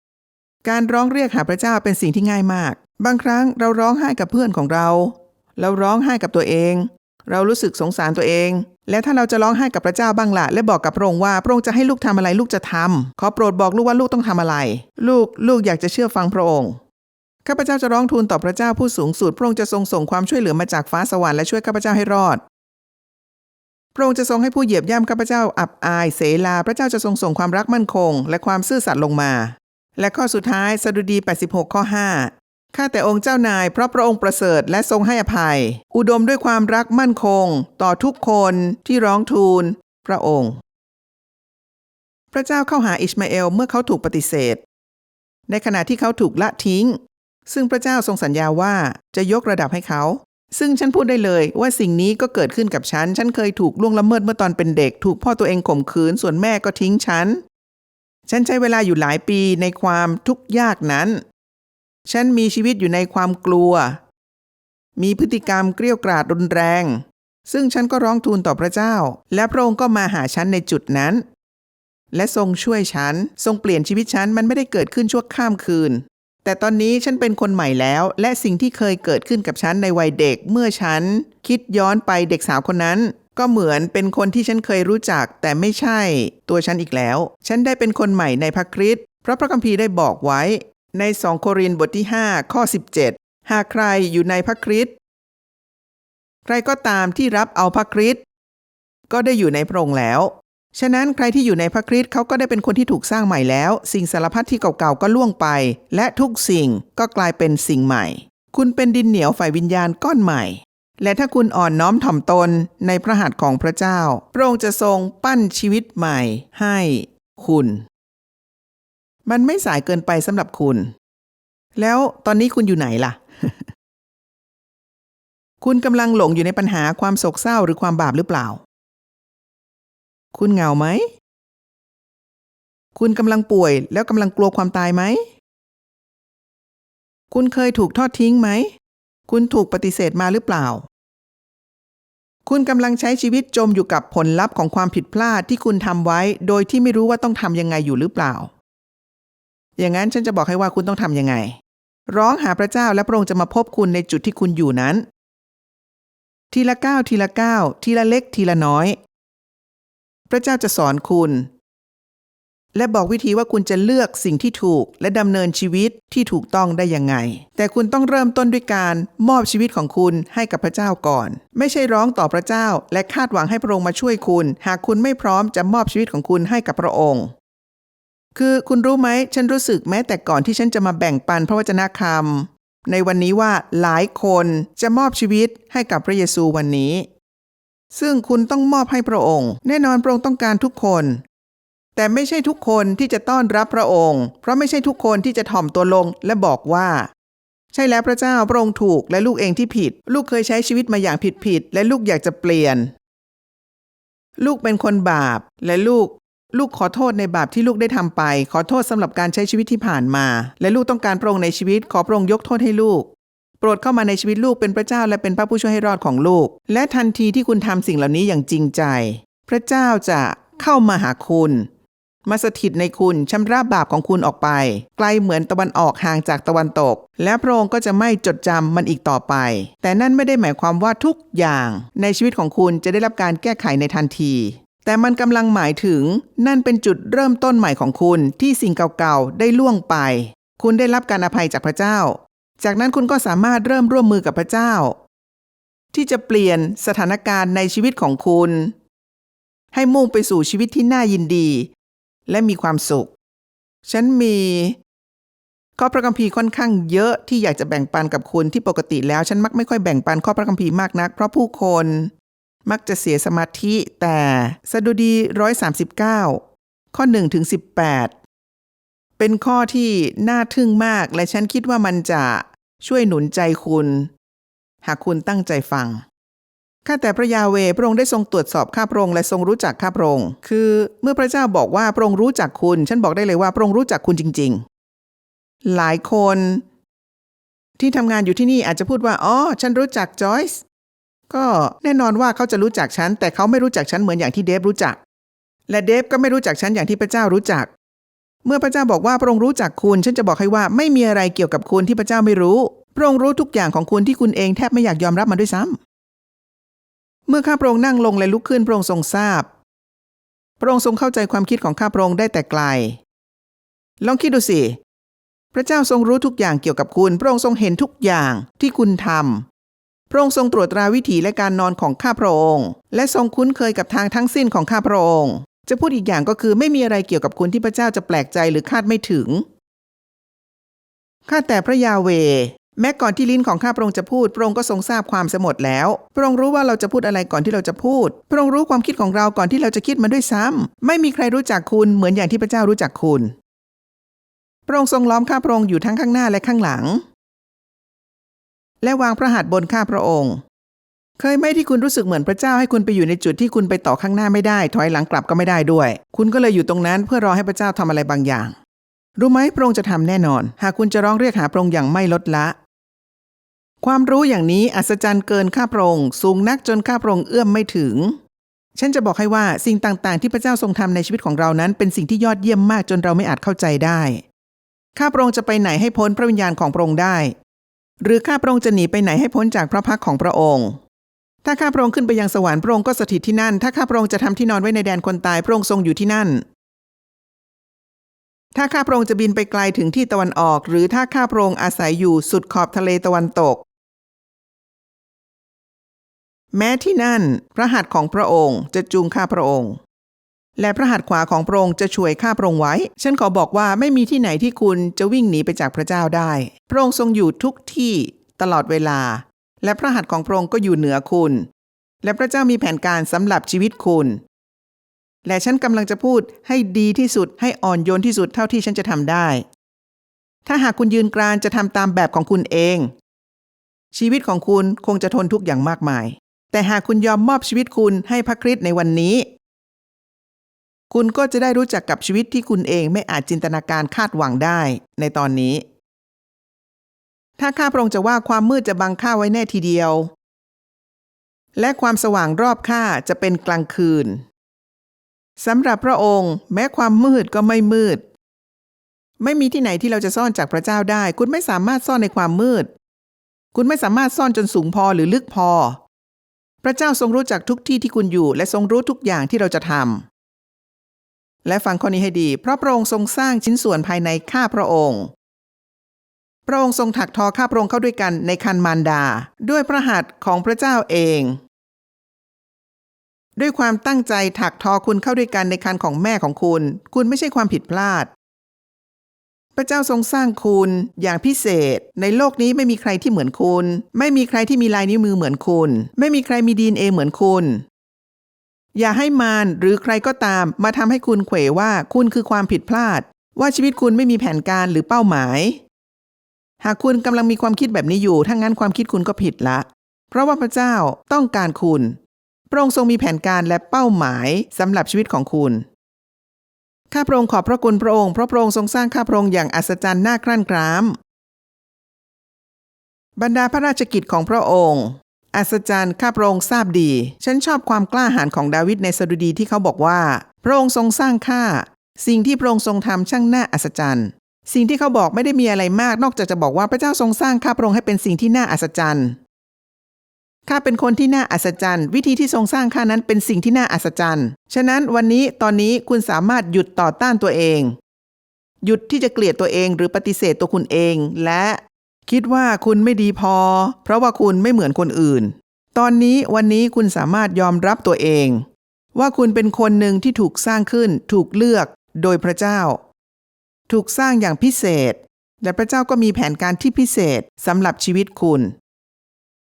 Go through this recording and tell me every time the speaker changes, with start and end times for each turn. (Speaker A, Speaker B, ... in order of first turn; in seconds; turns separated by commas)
Speaker A: 0.6-16.8, Speaker A: 17.4-22.4, Speaker A: 23.9-40.6, Speaker A: 42.3-44.6, Speaker A: 45.5-57.4, Speaker A: 58.3-61.2, Speaker A: 62.1-64.0, Speaker A: 65.0-71.2, Speaker A: 72.1-94.9, Speaker A: 96.5-98.2, Speaker A: 99.1-117.8, Speaker A: 119.3-120.9, Speaker A: 121.8-123.7, Speaker A: 125.6-128.6, Speaker A: 130.3-131.1, Speaker A: 133.0-135.2, Speaker A: 137.3-138.7, Speaker A: 139.3-140.8, Speaker A: 142.5-148.5, Speaker A: 149.8-155.1, Speaker A: 156.5-159.0, Speaker A: 160.3-161.5, Speaker A: 162.7-177.3, Speaker A: 178.3-187.1, Speaker A: 187.9-191.2, Speaker A: 192.0-197.1, Speaker A: 197.7-202.9, Speaker A: 204.4-213.1, Speaker A: 213.6-221.7, Speaker A: 222.3-245.0, Speaker A: 245.9-248.7, Speaker A: 249.7-251.7, Speaker A: 252.3-253.1, Speaker A: 253.8-254.8, Speaker A: 255.8-262.1, Speaker A: 262.7-266.4, Speaker A: 266.9-268.1, Speaker A: 269.2-274.1, Speaker A: 274.8-276.0, Speaker A: 276.9-284.6, Speaker A: 285.7-286.6, Speaker A: 287.8-290.6, Speaker A: 291.3-295.0, Speaker A: 295.7-297.7, Speaker A: 298.4-305.8, Speaker A: 307.3-309.5, Speaker A: 310.6-313.0, Speaker A: 314.0-314.8, Speaker A: 315.5-319.4, Speaker A: 320.1-329.4, Speaker A: 331.3-343.3, Speaker A: 344.7-347.0, Speaker A: 348.8-350.4, Speaker A: 351.2-358.6, Speaker A: 359.2-362.6, Speaker A: 363.8-368.2, Speaker A: 368.8-374.2, Speaker A: 375.0-377.4, Speaker A: 378.0-380.8, Speaker A: 381.4-386.4, Speaker A: 388.5-393.6, Speaker A: 396.5-399.8, Speaker A: 400.6-411.5, Speaker A: 412.0-414.2, Speaker A: 415.2-419.4, Speaker A: 420.5-422.9, Speaker A: 423.9-429.3, Speaker A: 430.9-435.6, Speaker A: 437.4-440.1, Speaker A: 441.6-444.2, Speaker A: 445.4-448.0, Speaker A: 449.2-452.7, Speaker A: 453.5-455.8, Speaker A: 456.6-460.1, Speaker A: 461.4-465.1, Speaker A: 466.5-471.4, Speaker A: 473.4-478.1, Speaker A: 479.6-487.6, Speaker A: 488.8-495.6, Speaker A: 496.6-502.0, Speaker A: 502.5-505.6, Speaker A: 506.9-511.0, Speaker A: 513.2-529.2, Speaker A: 530.5-537.8, Speaker A: 538.6-552.8, Speaker A: 553.7-558.5